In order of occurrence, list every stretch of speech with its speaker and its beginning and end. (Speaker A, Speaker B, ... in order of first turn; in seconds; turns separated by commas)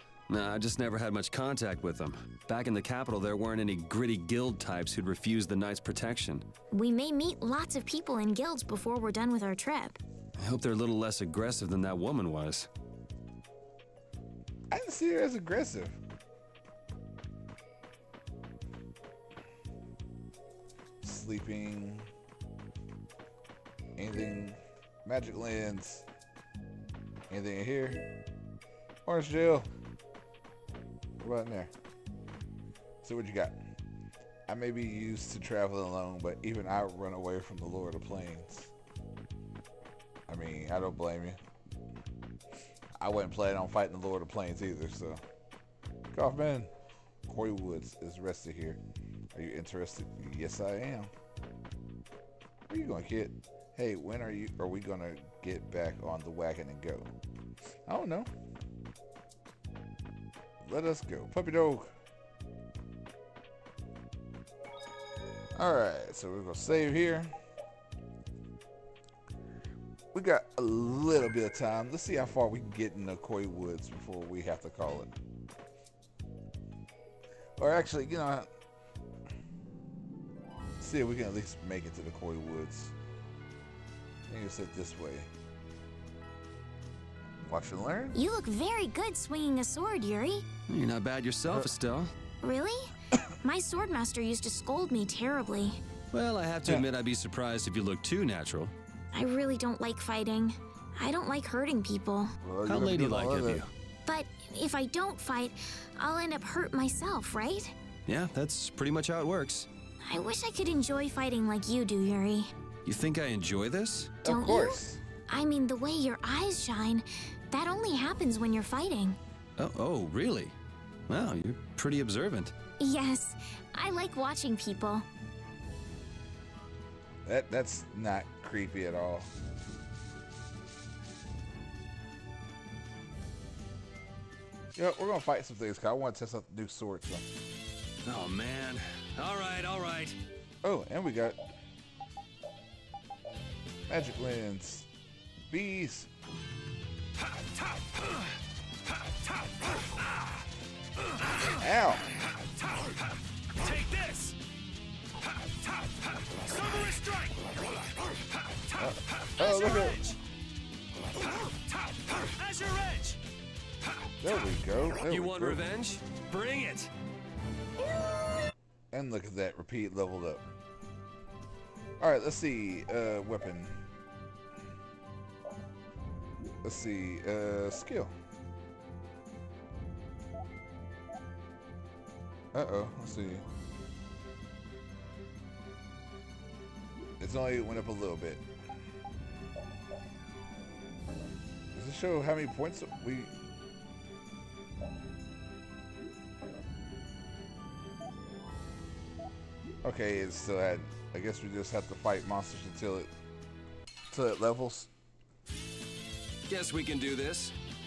Speaker A: 0.3-6.4, Speaker B: 6.7-10.0, Speaker A: 10.4-12.7, Speaker C: 14.7-16.0, Speaker C: 21.0-22.1, Speaker C: 24.0-26.1, Speaker C: 27.3-28.1, Speaker C: 29.1-29.7, Speaker C: 31.2-31.7, Speaker C: 33.0-33.6, Speaker C: 34.5-38.7, Speaker C: 40.3-41.4, Speaker C: 43.0-45.2, Speaker C: 46.1-46.7, Speaker C: 47.3-48.8, Speaker C: 49.3-51.1, Speaker C: 52.7-57.1, Speaker C: 57.9-58.3, Speaker C: 60.6-61.9, Speaker C: 65.6-67.3, Speaker C: 70.1-75.1, Speaker C: 77.6-78.5, Speaker C: 80.8-82.9, Speaker C: 84.3-85.3, Speaker C: 87.4-88.2, Speaker B: 88.1-90.5, Speaker A: 90.7-92.1, Speaker B: 92.4-95.8, Speaker A: 96.1-98.7, Speaker B: 99.1-102.3, Speaker C: 102.4-103.6, Speaker A: 102.7-103.7, Speaker B: 104.1-107.7, Speaker A: 108.1-109.7, Speaker B: 110.0-112.5, Speaker A: 112.8-114.2, Speaker C: 114.2-115.0, Speaker B: 114.2-119.2, Speaker A: 119.6-120.5, Speaker A: 121.1-122.5, Speaker B: 122.8-125.1, Speaker C: 127.2-129.3, Speaker C: 134.8-137.2, Speaker A: 138.1-140.2, Speaker C: 140.6-141.4, Speaker C: 143.9-144.9, Speaker C: 145.5-146.1, Speaker C: 151.6-152.1, Speaker D: 153.7-154.3, Speaker D: 156.6-157.3, Speaker C: 158.8-160.0, Speaker D: 159.4-160.1, Speaker D: 162.4-163.2, Speaker C: 164.2-165.6, Speaker A: 165.1-166.9, Speaker C: 168.9-170.5, Speaker C: 172.0-173.8, Speaker C: 176.6-178.1, Speaker C: 182.5-183.4, Speaker C: 187.2-188.4, Speaker C: 191.8-193.3, Speaker C: 199.8-203.1, Speaker C: 204.1-204.9, Speaker A: 206.5-207.6